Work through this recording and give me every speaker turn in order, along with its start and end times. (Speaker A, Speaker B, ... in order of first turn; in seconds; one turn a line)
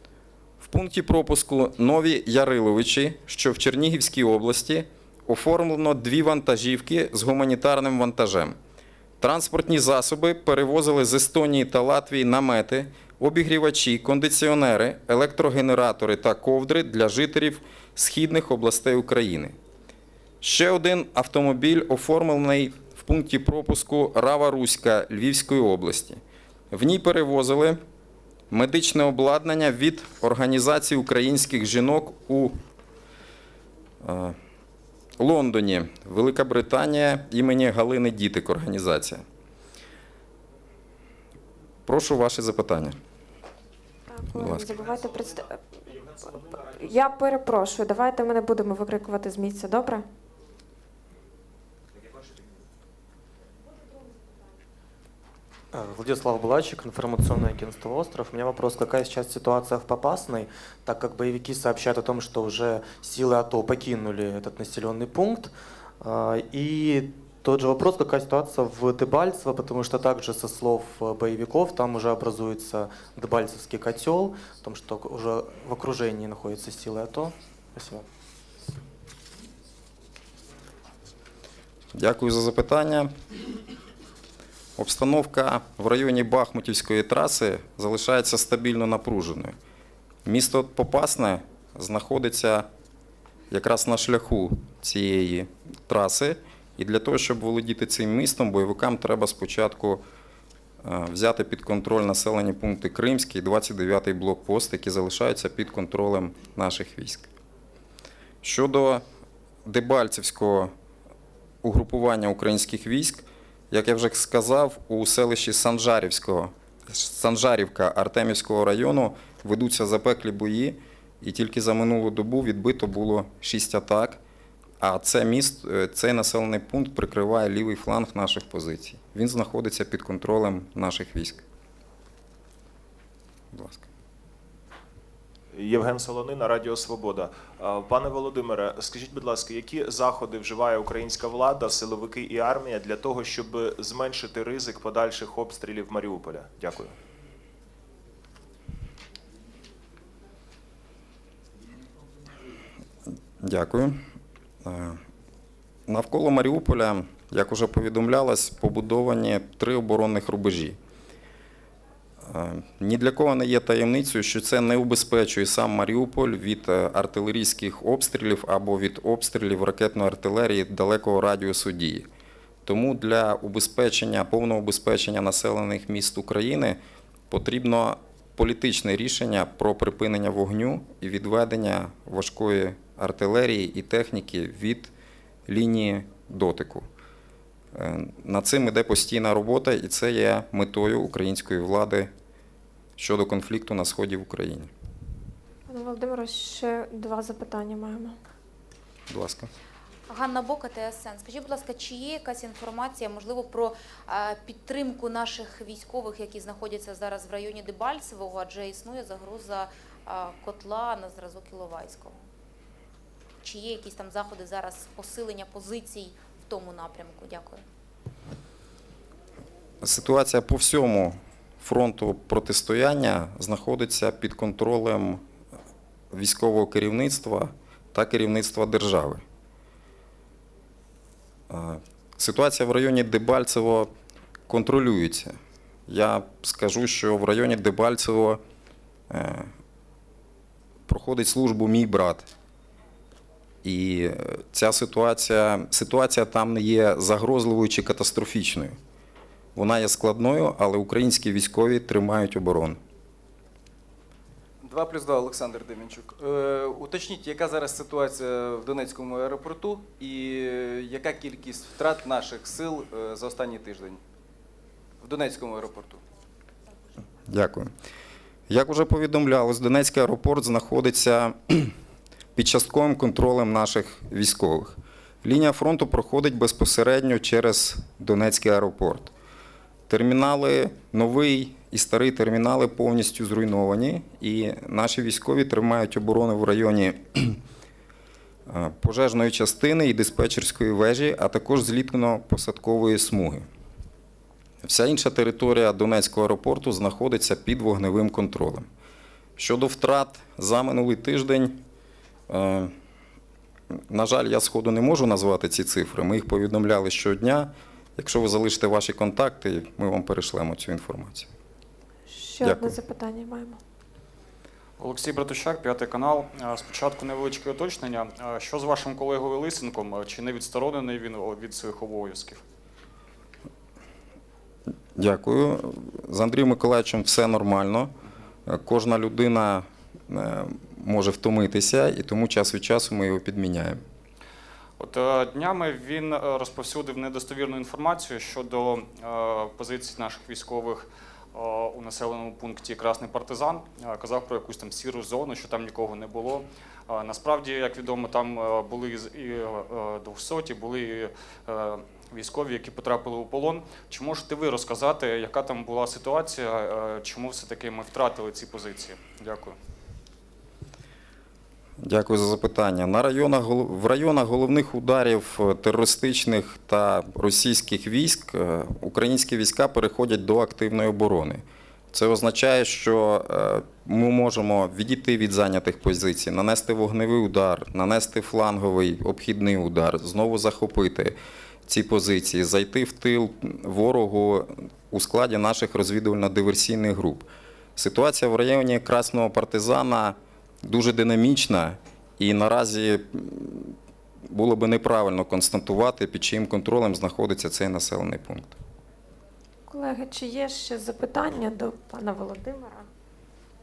Speaker A: 0.6-8.6
Speaker A: 9.2-19.5
Speaker A: 20.4-26.2
Speaker A: 26.7-27.8
Speaker A: 28.5-32.5
Speaker A: 34.0-34.4
Speaker A: 35.2-39.2
Speaker A: 41.9-42.9
Speaker B: 44.1-45.6
Speaker A: 44.4-44.7
Speaker B: 46.1-50.0
Speaker C: 55.7-78.0
Speaker A: 81.9-83.1
Speaker A: 84.8-89.5
Speaker A: 90.2-92.7
Speaker A: 93.5-100.0
Speaker A: 100.8-107.3
Speaker A: 108.4-109.0
Speaker A: 109.7-110.7
Speaker A: 111.6-124.2
Speaker A: 124.8-131.4
Speaker A: 133.5-133.8
Speaker D: 135.5-146.9
Speaker A: 153.4-154.0
Speaker A: 154.6-155.0
Speaker A: 155.9-160.8
Speaker A: 162.2-172.1
Speaker A: 172.6-176.8
Speaker A: 177.3-184.9
Speaker A: 185.5-186.8
Speaker A: 187.7-192.1
Speaker A: 193.0-194.7
Speaker B: 195.7-198.2
Speaker A: 199.1-199.5
Speaker E: 200.1-212.2
Speaker E: 213.4-217.6
Speaker A: 219.8-225.2
Speaker A: 226.1-229.2
Speaker A: 231.5-233.9
Speaker A: 234.5-235.3
Speaker A: 235.9-238.4
Speaker A: 239.1-239.5
Speaker A: 240.9-242.3
Speaker A: 243.6-248.7
Speaker A: 249.6-252.8
Speaker F: 254.6-264.0
Speaker F: 265.0-266.0
Speaker A: 267.3-267.7
Speaker A: 268.5-271.7
Speaker A: 272.4-279.1
Speaker A: 279.9-287.4
Speaker A: 288.5-293.4
Speaker A: 294.6-298.6
Speaker A: 299.4-301.6
Speaker A: 302.3-302.7
Speaker A: 303.9-311.3
Speaker B: 312.1-313.6
Speaker A: 312.4-312.8
Speaker G: 314.8-322.4
Speaker A: 325.0-327.9
Speaker A: 328.5-333.8
Speaker G: 334.8-359.6
Speaker A: 361.8-381.1
Speaker A: 381.7-393.7
Speaker A: 394.3-398.5
Speaker B: 399.7-402.8